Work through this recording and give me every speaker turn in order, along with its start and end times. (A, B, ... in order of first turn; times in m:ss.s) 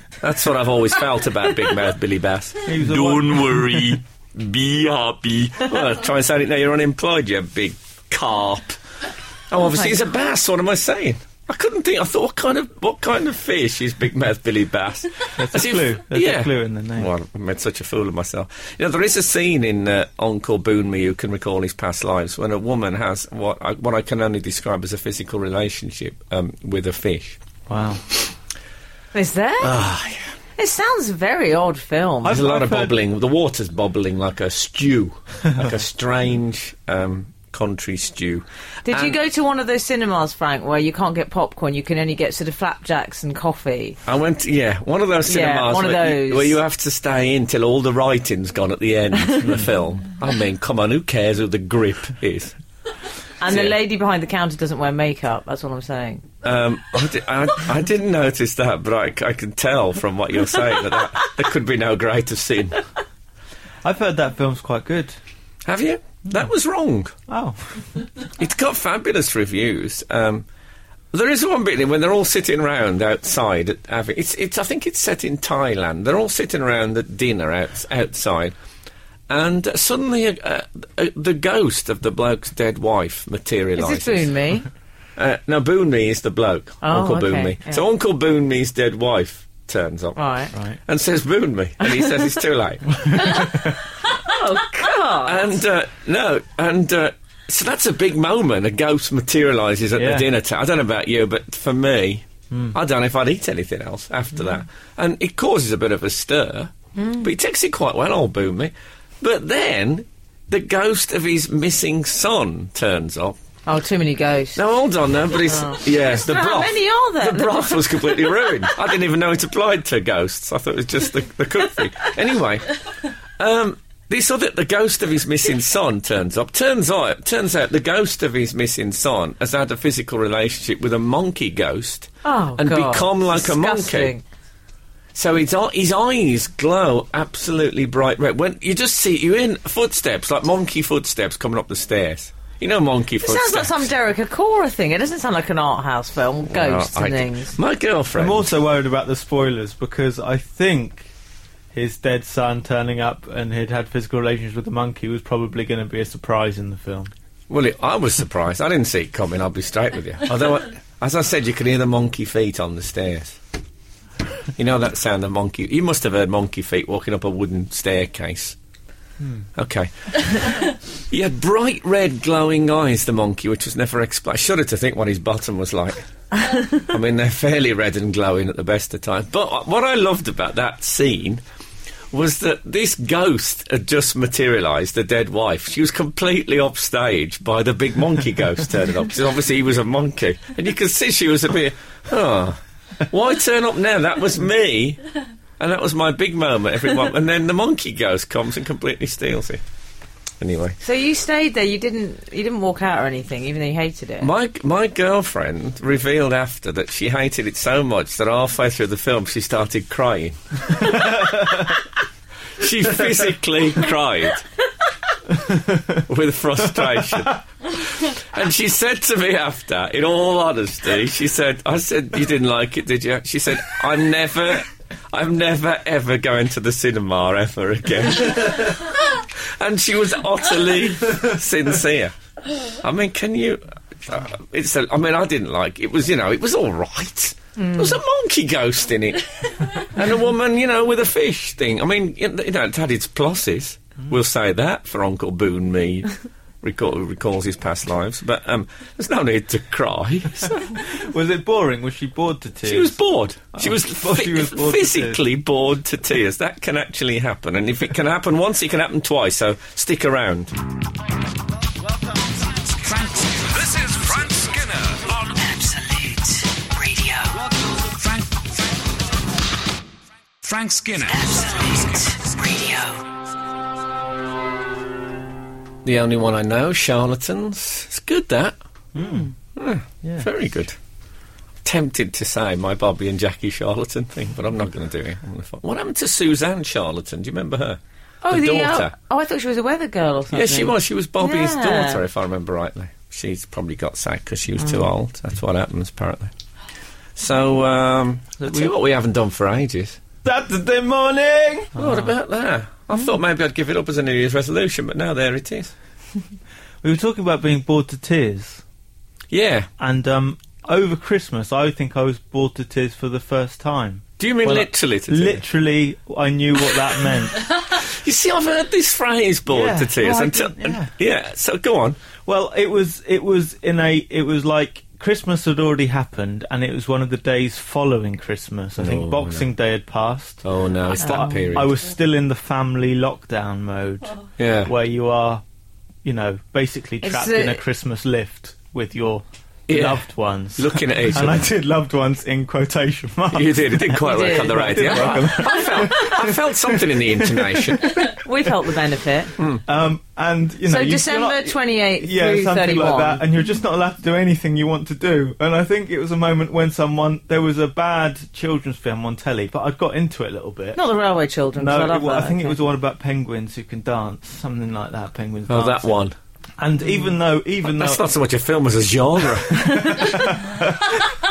0:00.2-0:08.8 A
0:02.7-0:04.0 B
0:09.5-0:27.4 A
0:15.4-0:17.1 B
0:27.7-0:28.0 B
0:29.1-0:29.8 C
0:29.6-0:30.3 A
0:30.6-0:32.4 C
0:32.2-0:32.9 B
0:32.2-0:39.2 A
0:38.8-0:44.0 C
0:44.1-0:52.6 A
0:45.2-0:46.6 C
0:49.4-0:49.7 B
0:53.4-0:56.2 C
0:53.4-0:53.8 A
0:56.4-1:02.8 A
1:03.8-1:05.2 B
1:05.6-1:07.1 A
1:07.3-1:07.8 B
1:08.4-1:10.4 A
1:11.1-1:18.5 A
1:19.3-1:24.3 A
1:23.8-1:24.7 C
1:25.2-1:30.2 A
1:26.8-1:27.8 C
1:30.2-1:30.5 C
1:30.5-1:30.8 B
1:30.8-1:33.5 A
1:34.0-1:35.5 C
1:35.2-1:53.4 A
1:40.0-1:40.3 B
1:42.5-1:42.8 B
1:47.0-1:47.3 C
1:53.7-1:54.6 C
1:54.5-2:02.8 A
1:55.5-1:58.4 C
2:03.4-2:14.1 A
2:12.2-2:14.2 C
2:15.2-2:23.8 A
2:23.2-2:27.6 C
2:26.5-2:28.5 A
2:28.1-2:31.1 B
2:31.7-2:37.1 B
2:37.5-2:43.4 A
2:44.6-2:48.6 A
2:49.2-2:49.5 B
2:49.5-2:56.0 A
2:56.7-3:01.4 A
3:02.1-3:15.0 A
3:15.6-3:19.6 A
3:20.4-3:20.8 A
3:20.8-3:24.3 C
3:24.2-3:31.3 A
3:32.6-3:34.4 A
3:36.0-3:52.1 A
3:52.7-4:06.1 A
3:57.6-3:58.0 C
4:06.6-4:10.7 A
4:10.7-4:12.9 B
4:12.6-4:20.5 A
4:13.6-4:15.2 B
4:22.6-4:25.3 D
4:25.3-4:27.5 E
4:27.9-4:28.4 D
4:30.4-4:31.8 D
4:31.1-4:33.0 E
4:35.8-4:38.6 A
4:38.9-4:39.3 B
4:39.5-4:40.8 A
4:40.0-4:40.3 B
4:41.6-4:49.0 A
4:48.2-4:52.0 C
4:50.3-4:56.3 A
4:57.2-5:00.0 A
4:58.4-4:58.7 B
5:00.2-5:02.1 B
5:01.8-5:05.7 A
5:06.8-5:08.6 B
5:09.3-5:09.7 A
5:09.8-5:17.5 B
5:14.2-5:15.4 A
5:17.6-5:22.0 A
5:19.5-5:20.9 B
5:22.2-5:30.4 B
5:28.8-5:29.5 A
5:30.4-5:31.8 A
5:31.0-5:31.5 C
5:31.0-5:35.4 B
5:34.4-5:34.7 A
5:36.0-5:48.2 B
5:37.0-5:37.6 C
5:39.7-5:41.5 A
5:43.3-5:48.1 A
5:44.0-5:45.4 C
5:48.1-5:49.3 C
5:49.4-5:49.6 A
5:49.6-6:00.8 B
5:50.6-5:53.2 C
6:00.7-6:02.6 C
6:01.6-6:06.0 B
6:05.5-6:06.2 A
6:06.6-6:08.0 B
6:07.6-6:10.1 A
6:09.5-6:11.0 B